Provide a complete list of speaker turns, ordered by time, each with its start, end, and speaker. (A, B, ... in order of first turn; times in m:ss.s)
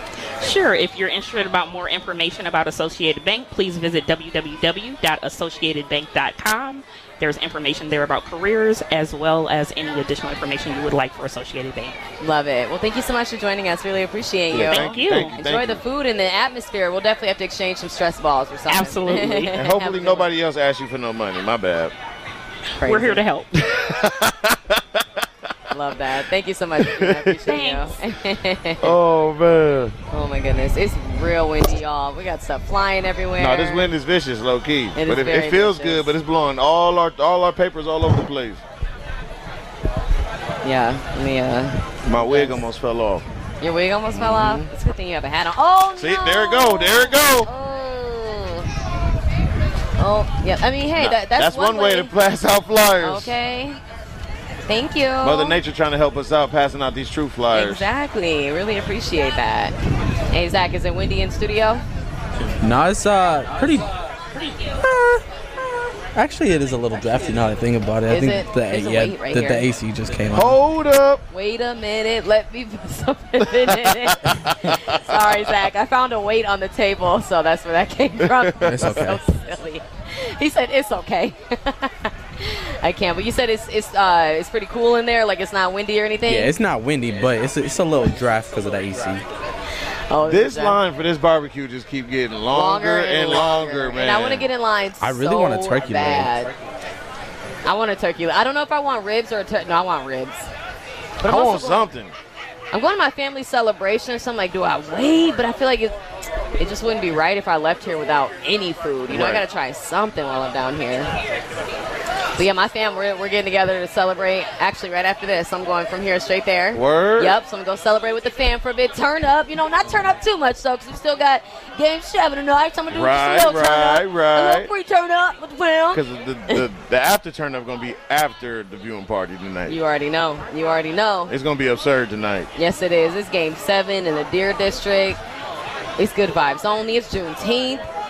0:00.4-0:12.0 A
0:12.2-0:20.3 B
0:14.5-0:15.8 C
0:14.7-0:15.4 A
0:18.7-0:19.5 A
0:19.5-0:21.9 C
0:22.8-0:23.2 B
0:22.8-0:23.7 A
0:23.7-0:25.2 C
0:25.7-0:29.0 B
0:26.8-0:27.5 C
0:27.5-0:28.0 A
0:28.8-0:30.0 C
0:30.1-0:33.9 B
0:33.4-0:38.6 C
0:34.9-0:36.1 B
0:40.6-0:42.6 B
0:42.0-0:43.2 C
0:43.6-0:48.7 B
0:44.1-0:44.7 C
0:46.0-0:47.5 C
0:50.0-0:52.1 B
0:51.0-0:53.3 C
0:53.0-0:53.8 B
0:54.7-0:55.6 B
0:55.2-0:57.9 C
0:57.5-0:59.7 B
1:00.3-1:01.8 B
1:02.6-1:03.9 D
1:04.8-1:10.6 D
1:08.1-1:09.7 B
1:10.3-1:11.2 C
1:11.3-1:26.5 B
1:13.6-1:15.2 C
1:18.4-1:18.9 C
1:18.6-1:19.2 D
1:26.2-1:29.2 D
1:30.1-1:30.8 B
1:30.2-1:34.5 C
1:32.5-1:36.5 B
1:35.0-1:36.4 D
1:37.6-1:40.5 B
1:41.2-1:42.1 C
1:41.2-1:41.9 B
1:42.7-1:46.0 B
1:46.6-1:51.1 B
1:49.1-1:49.4 C
1:52.4-2:06.6 B
1:56.7-1:57.4 C
2:02.9-2:04.7 C
2:05.9-2:09.8 C
2:09.7-2:11.3 B
2:11.3-2:12.5 C
2:12.6-2:15.2 B
2:16.0-2:17.8 B